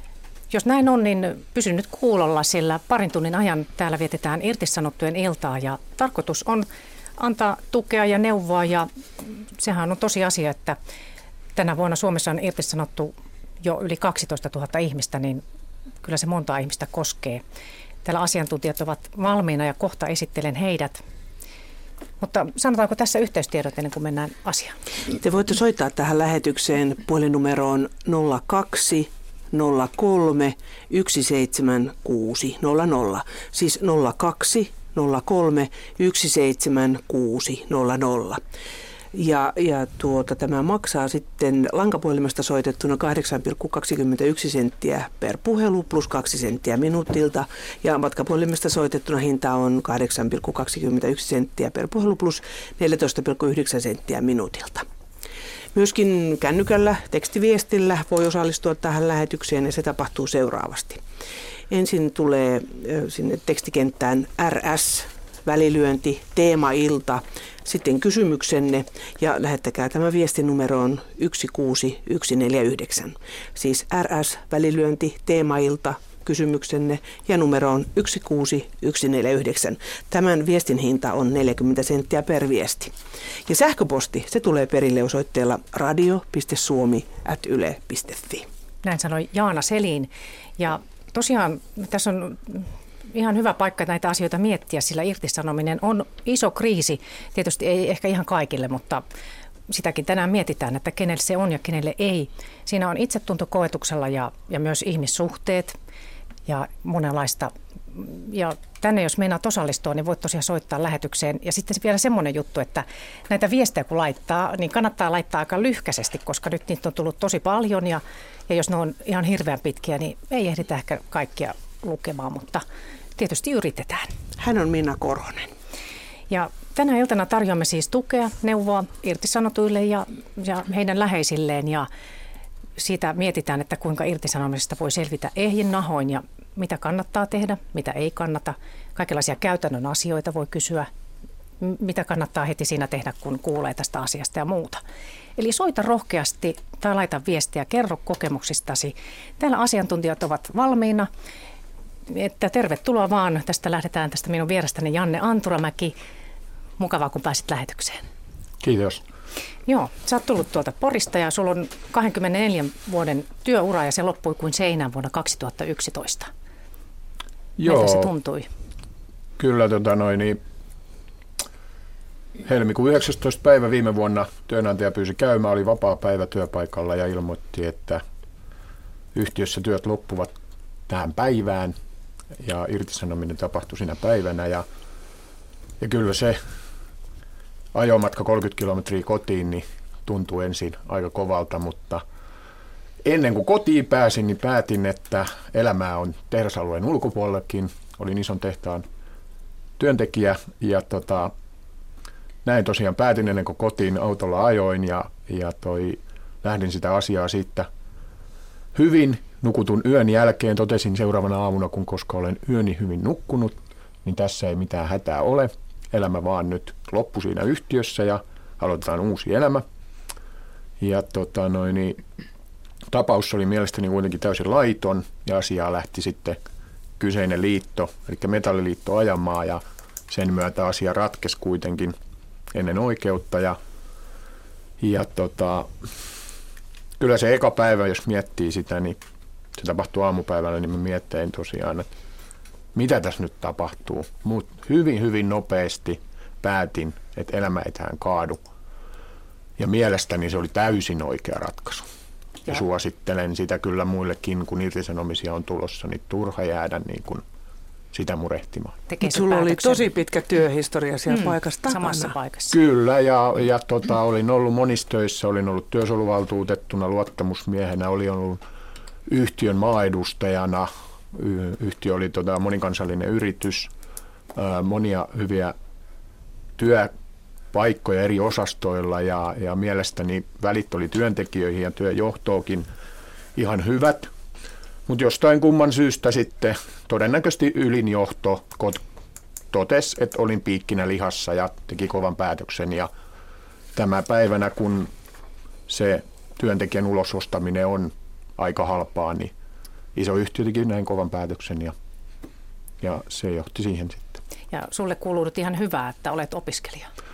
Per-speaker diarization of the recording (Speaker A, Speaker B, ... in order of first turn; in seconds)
Speaker A: 0.5-10.8, 11.6-15.4, 16.0-17.4, 18.1-21.0, 22.2-24.8, 88.8-99.0, 99.7-105.8, 106.5-122.7, 123.2-124.2, 126.3-131.9, 132.8-140.9, 141.6-144.8, 145.4-151.1, 152.1-155.9, 156.8-158.1, 159.7-166.3, 167.7-168.5, 258.9-259.9, 261.1-262.6, 304.5-306.9
Speaker B: 25.2-38.4, 39.1-54.9, 55.8-61.0, 61.7-83.0, 83.5-88.5, 124.4-125.5, 259.0-262.1
Speaker C: 158.6-159.0, 167.6-168.1, 169.4-170.4, 172.4-178.0, 179.1-180.3, 180.9-181.8, 182.4-184.7, 185.8-186.4, 187.7-192.0, 193.0-198.9, 199.8-201.3, 202.4-207.7, 208.7-219.7, 220.8-222.0, 222.9-226.4, 227.0-232.0, 232.5-233.6, 234.8-235.8, 237.0-239.0, 239.6-241.9, 242.7-248.4, 249.6-251.9, 252.5-257.2, 257.9-258.8, 262.5-268.4, 269.1-273.7, 274.4-275.6, 276.6-276.9, 277.5-282.7, 283.4-284.1, 284.9-288.8, 289.5-292.9, 293.8-294.9, 295.7-299.3, 299.9-301.8, 302.8-304.2